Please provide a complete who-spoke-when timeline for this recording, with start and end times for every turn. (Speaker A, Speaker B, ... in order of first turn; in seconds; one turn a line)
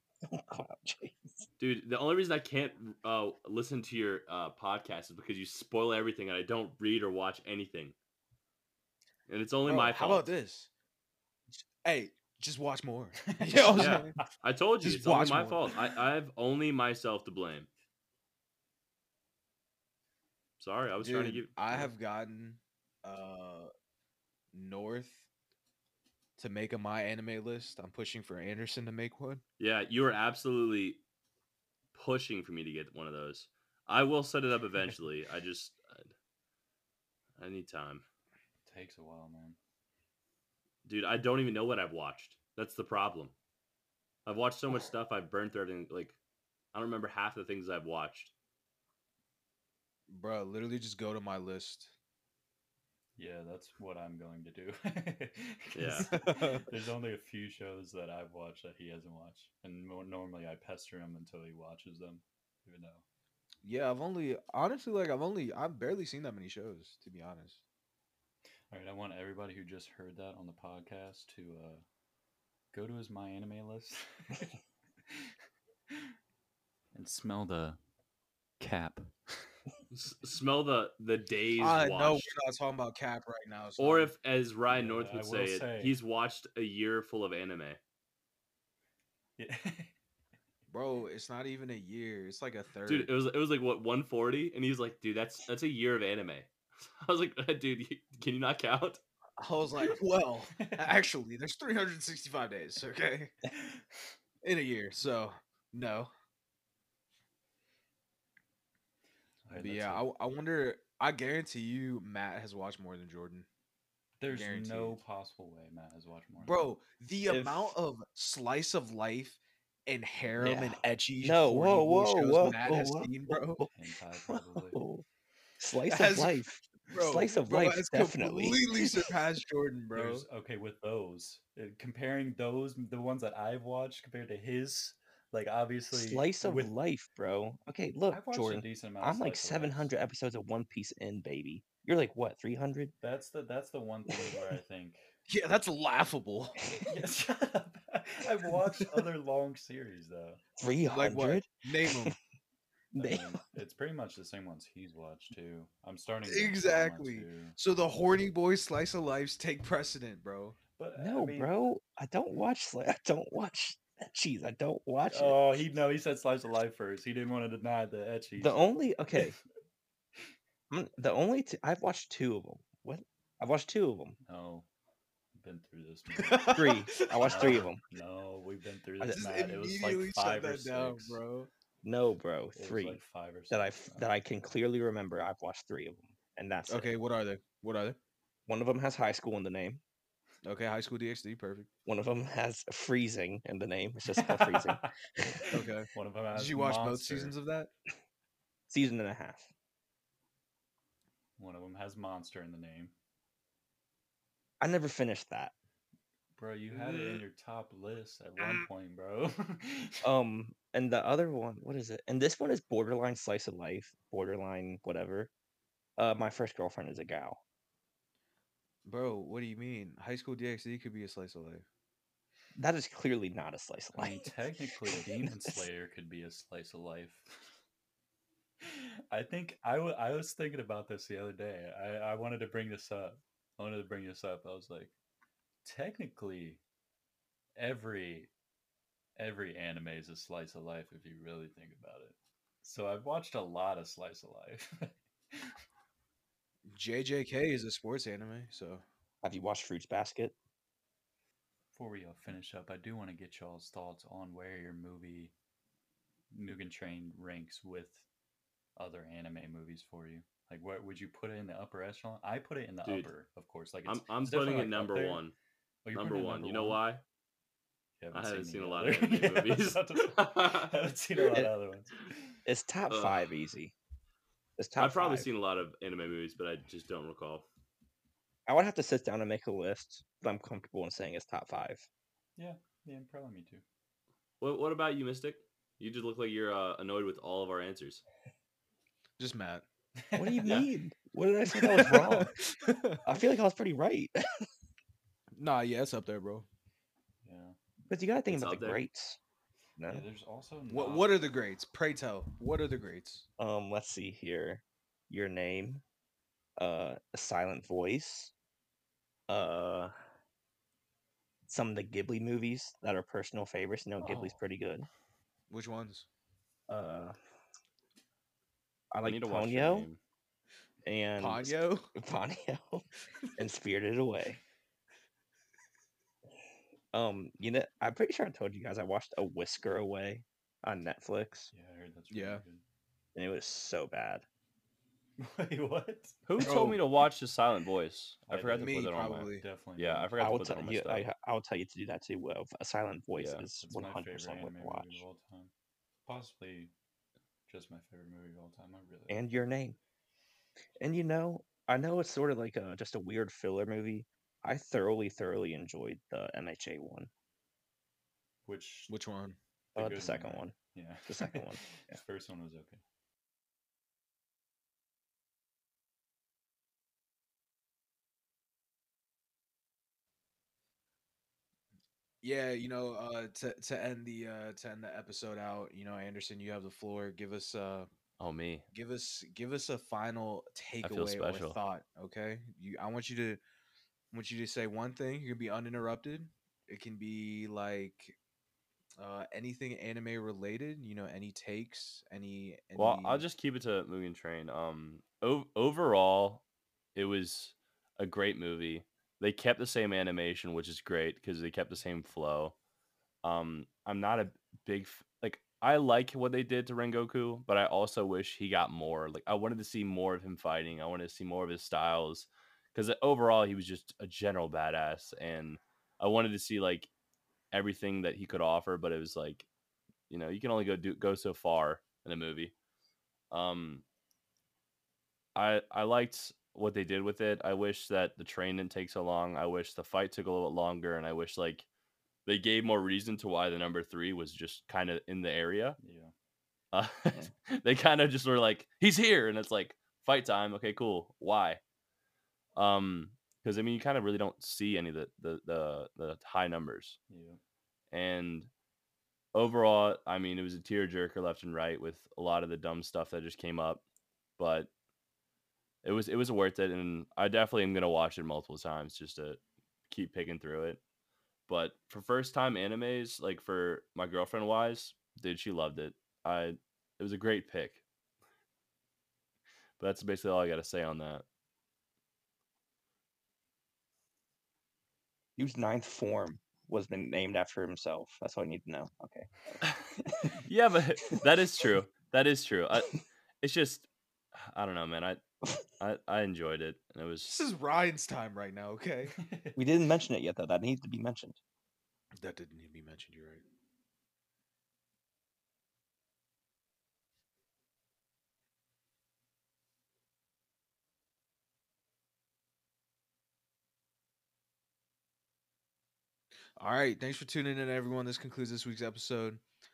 Speaker A: 0.2-1.5
Speaker B: 1.6-8.0
Speaker B: 9.3-10.3
Speaker C: 9.7-10.7
Speaker C: 11.8-14.2
Speaker D: 13.3-14.2
Speaker B: 13.7-17.7
Speaker C: 14.8-15.8
Speaker B: 20.6-21.9
Speaker C: 21.0-23.7
Speaker C: 24.5-25.3
Speaker C: 26.4-29.4
Speaker B: 29.6-31.0
Speaker B: 31.9-36.1
Speaker B: 37.4-38.0
Speaker D: 38.7-39.6
Speaker B: 40.9-43.3
Speaker B: 44.3-46.2
Speaker B: 46.7-48.3
Speaker C: 50.1-51.9
Speaker D: 53.2-63.0
Speaker B: 55.7-56.2
Speaker C: 56.0-56.7
Speaker C: 63.6-67.6
Speaker D: 68.7-71.8
Speaker D: 72.7-75.4
Speaker D: 75.9-76.2
Speaker D: 76.9-77.8
Speaker D: 78.6-79.6
Speaker B: 79.9-82.3
Speaker C: 81.6-84.1
Speaker B: 83.8-87.8
Speaker D: 84.7-86.0
Speaker D: 89.4-89.9
Speaker C: 90.7-93.1
Speaker B: 92.9-99.0
Speaker C: 99.4-103.4
Speaker D: 100.6-101.0
Speaker D: 103.6-104.0
Speaker C: 104.4-106.1
Speaker D: 109.5-110.1
Speaker C: 109.6-113.5
Speaker D: 114.2-116.7
Speaker C: 114.3-115.0
Speaker C: 116.4-123.6
Speaker A: 117.3-117.8
Speaker A: 120.4-123.7
Speaker D: 123.8-124.8
Speaker A: 124.3-125.0
Speaker A: 125.6-128.8
Speaker C: 125.9-130.3
Speaker D: 129.9-136.7
Speaker A: 135.9-142.9
Speaker D: 138.1-139.9
Speaker D: 143.0-145.1
Speaker C: 145.3-146.8
Speaker D: 146.9-150.4
Speaker A: 150.6-152.2
Speaker C: 150.9-152.2
Speaker A: 152.9-153.4
Speaker D: 153.0-157.6
Speaker C: 156.3-160.6
Speaker D: 160.8-161.5
Speaker A: 161.0-165.8
Speaker D: 165.1-168.6
Speaker A: 168.4-169.4
Speaker A: 170.7-174.2
Speaker D: 174.3-174.7
Speaker D: 175.4-181.2
Speaker C: 176.2-177.7
Speaker A: 176.5-177.8
Speaker C: 179.1-181.5
Speaker A: 181.8-186.9
Speaker D: 182.5-184.2
Speaker C: 186.7-188.0
Speaker A: 188.5-189.8
Speaker C: 190.4-191.7
Speaker A: 191.9-194.9
Speaker D: 194.2-197.3
Speaker C: 195.5-197.7
Speaker A: 198.7-199.5
Speaker D: 201.4-202.9
Speaker A: 204.6-205.5
Speaker D: 206.3-210.0
Speaker A: 206.8-207.2
Speaker A: 210.0-215.3
Speaker A: 216.0-217.4
Speaker C: 218.9-221.7
Speaker A: 222.6-224.3
Speaker D: 223.9-227.6
Speaker A: 224.9-225.6
Speaker D: 228.6-234.9
Speaker D: 235.6-236.6
Speaker D: 237.6-238.3
Speaker D: 239.2-245.6
Speaker C: 246.7-248.8
Speaker A: 249.2-250.4
Speaker D: 251.7-255.3
Speaker D: 256.3-258.1
Speaker D: 258.8-265.2
Speaker B: 262.9-263.1
Speaker B: 263.9-265.3
Speaker D: 265.9-266.8
Speaker B: 265.9-267.0
Speaker D: 268.0-272.4
Speaker B: 268.1-270.8
Speaker A: 272.5-273.8
Speaker B: 272.9-273.3
Speaker A: 274.6-275.3
Speaker B: 274.8-277.4
Speaker A: 278.5-281.9
Speaker D: 282.4-283.6
Speaker B: 284.4-288.0
Speaker C: 289.2-289.6
Speaker D: 290.0-290.7
Speaker A: 290.2-292.4
Speaker C: 291.5-293.0
Speaker A: 293.0-294.5
Speaker C: 295.4-296.5
Speaker D: 297.2-297.6
Speaker A: 297.9-299.2
Speaker B: 298.3-298.8
Speaker A: 299.8-300.1
Speaker D: 299.9-301.2
Speaker C: 300.7-303.3
Speaker A: 303.4-305.8
Speaker A: 306.6-308.3
Speaker A: 309.3-309.9
Speaker A: 311.5-314.9
Speaker D: 314.0-314.4
Speaker C: 315.5-316.1
Speaker A: 316.7-317.2
Speaker A: 318.9-319.9
Speaker B: 319.0-320.0
Speaker A: 320.9-324.4
Speaker C: 321.2-321.9
Speaker A: 326.9-331.5
Speaker D: 331.5-332.6
Speaker C: 332.1-332.4
Speaker A: 333.1-334.2
Speaker D: 335.2-336.2
Speaker B: 336.3-341.1
Speaker C: 336.4-336.8
Speaker D: 338.3-338.8
Speaker C: 338.5-339.4
Speaker D: 339.3-340.2
Speaker A: 340.2-345.0
Speaker B: 343.2-343.4
Speaker D: 343.6-345.5
Speaker D: 346.1-346.7
Speaker D: 347.5-349.2
Speaker A: 349.1-349.8
Speaker A: 350.8-357.1
Speaker D: 358.5-358.9
Speaker C: 358.9-359.4
Speaker A: 359.8-360.6
Speaker D: 359.8-362.8
Speaker A: 361.1-362.0
Speaker C: 372.2-377.9
Speaker B: 378.2-378.6
Speaker C: 378.7-383.4
Speaker B: 380.8-381.6
Speaker C: 384.1-388.2
Speaker C: 389.0-393.2
Speaker B: 392.8-396.4
Speaker B: 397.0-402.6
Speaker B: 403.2-416.9
Speaker B: 417.5-419.5
Speaker B: 420.1-422.5
Speaker B: 423.3-423.8
Speaker B: 425.4-431.7
Speaker B: 432.3-435.8
Speaker D: 435.8-436.1
Speaker B: 436.7-441.6
Speaker B: 442.6-447.0
Speaker D: 447.1-447.4
Speaker B: 447.9-448.5
Speaker B: 449.3-453.8
Speaker B: 454.4-454.7
Speaker B: 455.8-460.8
Speaker B: 461.5-467.8
Speaker B: 469.8-471.2
Speaker A: 475.4-479.3
Speaker B: 479.6-485.2
Speaker B: 485.8-487.5
Speaker C: 487.3-489.2
Speaker D: 489.2-489.6
Speaker A: 489.6-491.4
Speaker C: 492.2-493.4
Speaker C: 506.6-509.4